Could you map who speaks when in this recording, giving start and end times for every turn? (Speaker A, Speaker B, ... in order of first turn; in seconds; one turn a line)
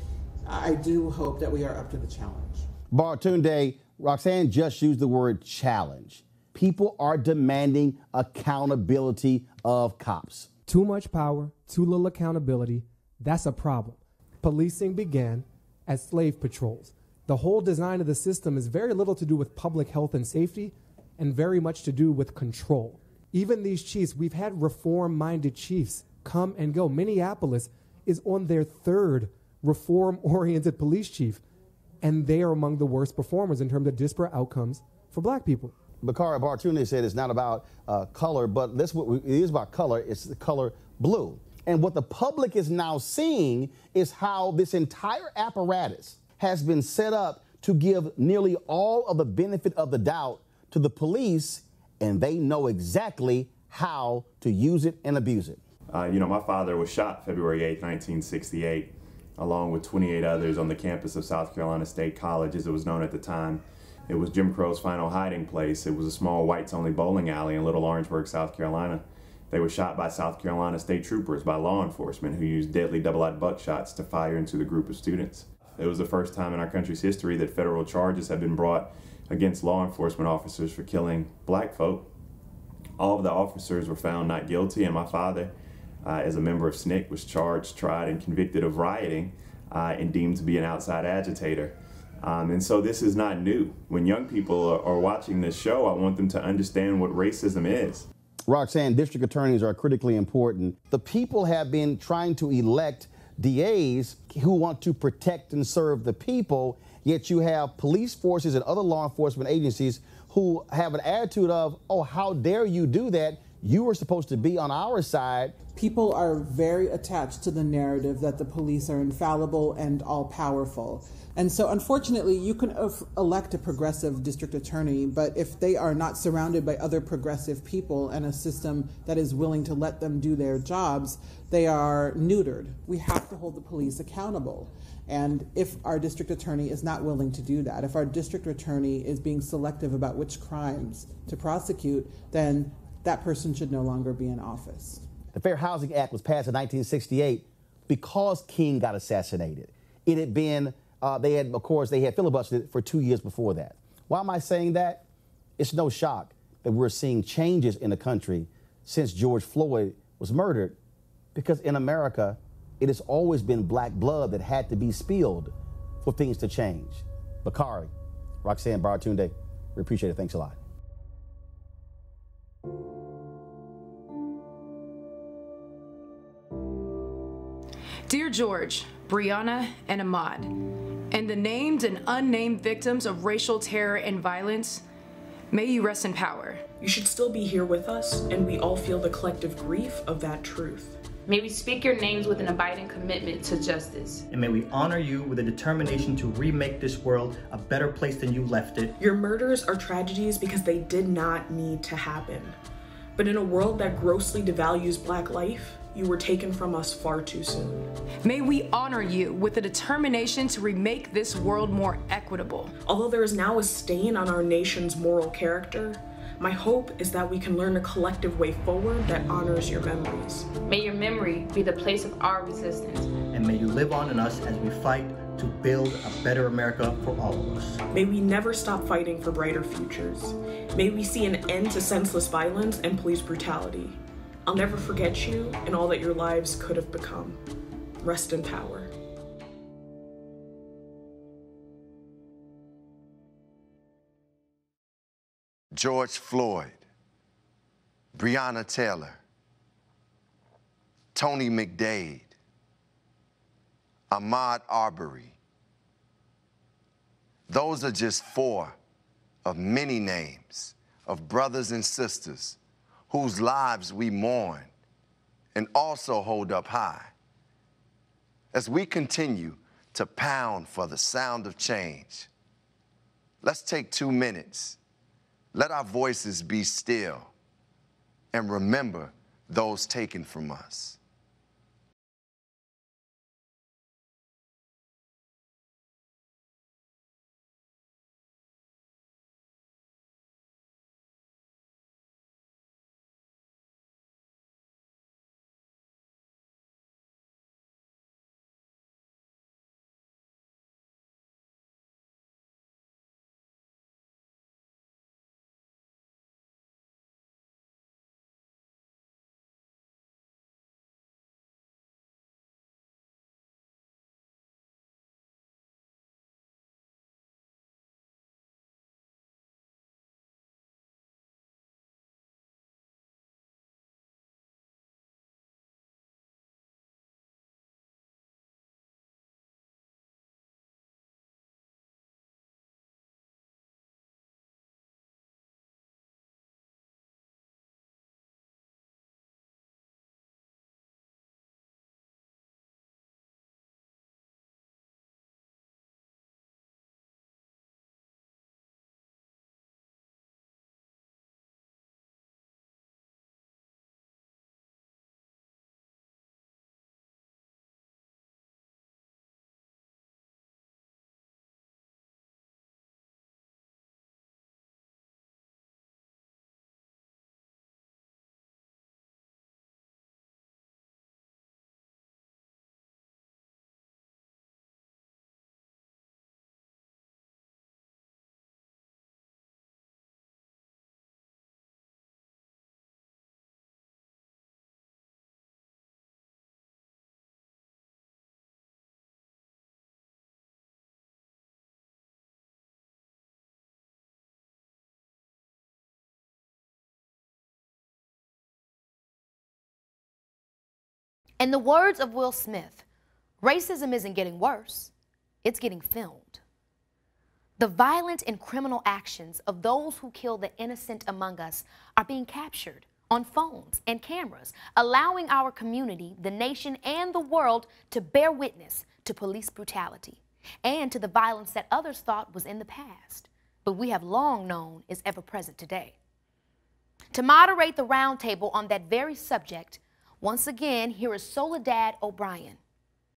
Speaker A: 0.5-2.7
Speaker B: 2.9-10.5
Speaker C: 10.7-31.4
Speaker C: 32.0-35.8
Speaker B: 36.0-55.6
Speaker D: 55.9-82.1
Speaker D: 83.0-85.5
Speaker D: 86.0-98.1
Speaker B: 98.5-115.6
Speaker A: 115.7-145.1
Speaker B: 145.3-155.0
Speaker B: 155.6-160.8
Speaker B: 161.3-167.9
Speaker B: 168.4-170.6
Speaker E: 178.1-180.6
Speaker E: 181.1-184.8
Speaker E: 185.5-186.6
Speaker F: 186.8-191.0
Speaker G: 191.3-194.2
Speaker H: 194.3-199.0
Speaker F: 199.0-202.6
Speaker F: 203.2-207.9
Speaker E: 208.2-212.7
Speaker F: 212.8-220.5
Speaker G: 220.7-223.1
Speaker H: 223.3-227.8
Speaker F: 227.9-237.4
Speaker F: 238.0-238.9
Speaker I: 245.7-246.8
Speaker I: 248.1-249.2
Speaker I: 251.1-252.3
Speaker I: 254.1-255.4
Speaker I: 257.5-258.8
Speaker I: 259.4-262.6
Speaker I: 263.1-264.7
Speaker I: 265.6-267.1
Speaker I: 268.5-272.3
Speaker I: 273.4-274.8
Speaker I: 275.5-277.3
Speaker I: 278.3-281.0
Speaker J: 401.4-402.8
Speaker J: 403.4-404.9
Speaker J: 405.4-406.4
Speaker J: 407.6-425.9
Speaker J: 427.1-432.6